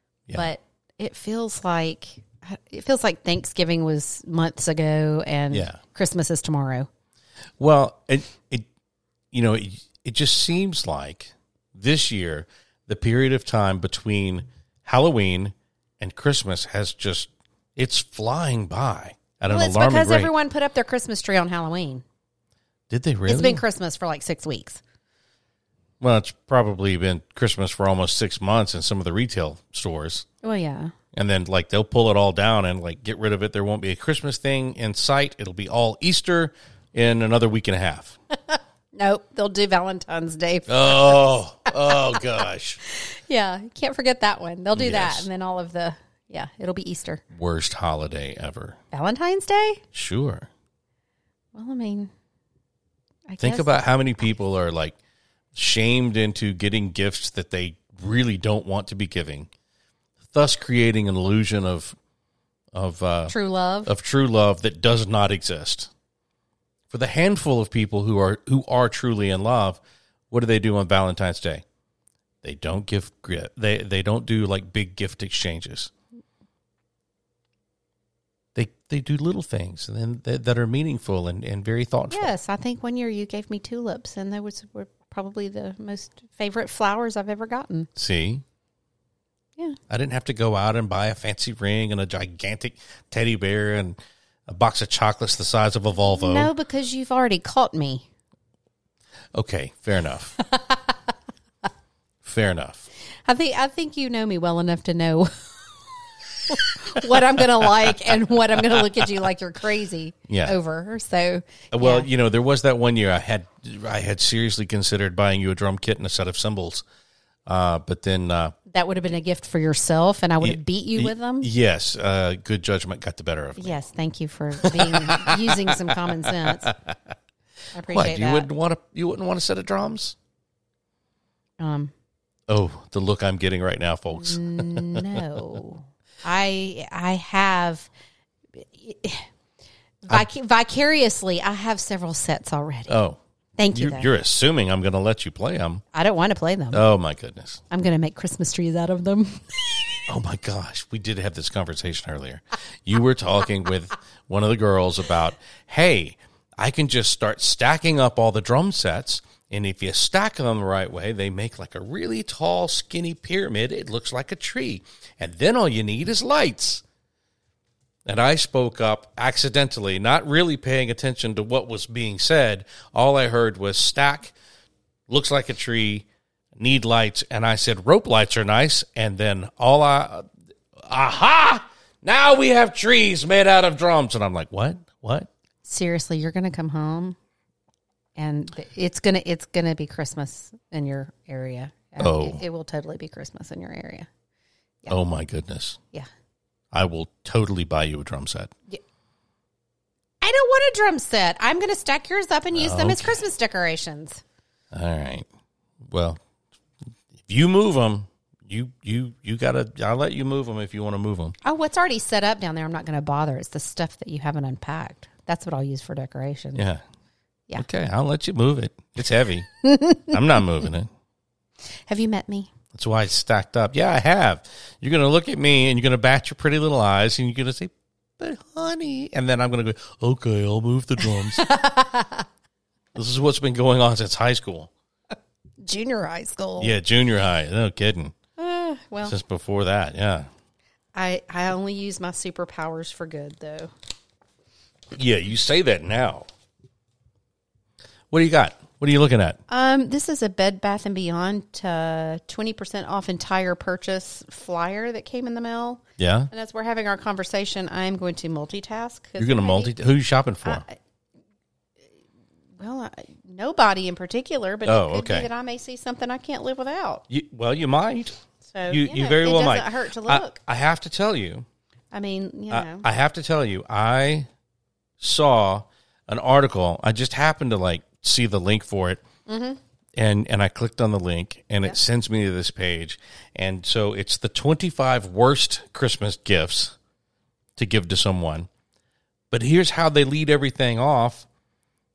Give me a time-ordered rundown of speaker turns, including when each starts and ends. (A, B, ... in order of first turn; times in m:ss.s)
0:00.3-0:06.9 A
0:05.5-0:05.8 B
0:07.6-0:08.7 B
0:09.3-0:20.3 B
0:19.5-0:22.0 A
0:22.9-0:23.6 B
0:23.3-0:24.8 A
0:26.0-0:30.2 B
0:30.4-0:30.9 A
0:31.1-0:38.2 B
0:38.5-0:42.0 A
0:40.7-0:42.8 B
0:42.9-0:47.2 A
0:44.8-0:45.3 B
0:47.3-0:48.8 B
0:48.9-0:49.8 A
0:49.9-0:50.5 B
0:51.6-0:52.1 A
0:53.3-0:53.7 A
0:53.4-0:55.0 B
0:55.5-0:59.5 B
1:00.3-1:02.0 B
1:02.7-1:03.3 B
1:03.3-1:03.9 A
1:03.9-1:05.9 B
1:06.9-1:09.8 B
1:10.3-1:11.6 B
1:12.4-1:15.9 B
1:18.6-1:22.3 B
1:22.1-1:27.9 A
1:28.0-1:28.4 B
1:29.9-1:36.5 B
1:36.0-1:38.0 A
1:39.3-1:40.4 B
1:42.2-1:42.8 B
1:43.3-1:45.8 A
1:46.5-1:52.1 A
1:50.3-1:50.6 B
1:51.7-1:56.8 B
1:57.5-1:58.6 B
1:58.7-2:01.5 A
2:00.4-2:03.8 B
2:03.6-2:06.7 A
2:04.6-2:07.0 B
2:07.7-2:08.5 A
2:07.9-2:10.2 B
2:11.6-2:11.9 A
2:12.5-2:15.2 B
2:14.1-2:17.9 A
2:18.6-2:19.2 A
2:20.0-2:23.0 A
2:22.9-2:23.2 B
2:23.6-2:24.1 A
2:23.7-2:25.8 B
2:25.9-2:26.8 A
2:26.7-2:27.6 B
2:27.7-2:29.7 A
2:30.1-2:46.8 B
2:48.1-2:54.3 B
2:55.1-2:56.1 B
2:56.6-3:05.3 B
3:05.6-3:07.2 A
3:08.2-3:14.1 A
3:12.0-3:12.4 B
3:14.9-3:15.8 B
3:16.7-3:18.5 B
3:20.2-3:24.2 A
3:22.5-3:23.2 B
3:24.7-3:25.3 B
3:25.9-3:26.2 B
3:27.3-3:31.3 B
3:31.4-3:36.6 A
3:36.6-3:36.8 B
3:37.6-3:40.9 B
3:39.6-3:40.1 A
3:41.9-3:42.5 A
3:42.7-3:51.5 B
3:51.3-3:52.2 A
3:53.0-3:54.7 B
3:55.6-3:56.7 A
3:56.6-3:58.2 B
3:58.4-3:59.1 A
3:59.0-4:00.3 B
4:01.0-4:03.7 A
4:04.9-4:06.3 B
4:08.1-4:09.4 B
4:09.5-4:19.7 A
4:16.0-4:16.3 B
4:19.2-4:20.6 B
4:20.4-4:20.8 A
4:22.6-4:27.0 A
4:24.7-4:25.3 B
4:27.1-4:28.2 B
4:28.5-4:30.4 A
4:28.7-4:31.4 B
4:31.9-4:32.8 A
4:32.5-4:34.3 B
4:35.0-4:39.0 B
4:39.3-4:39.6 A
4:40.0-4:46.8 B
4:47.6-4:48.5 B
4:49.3-4:51.3 B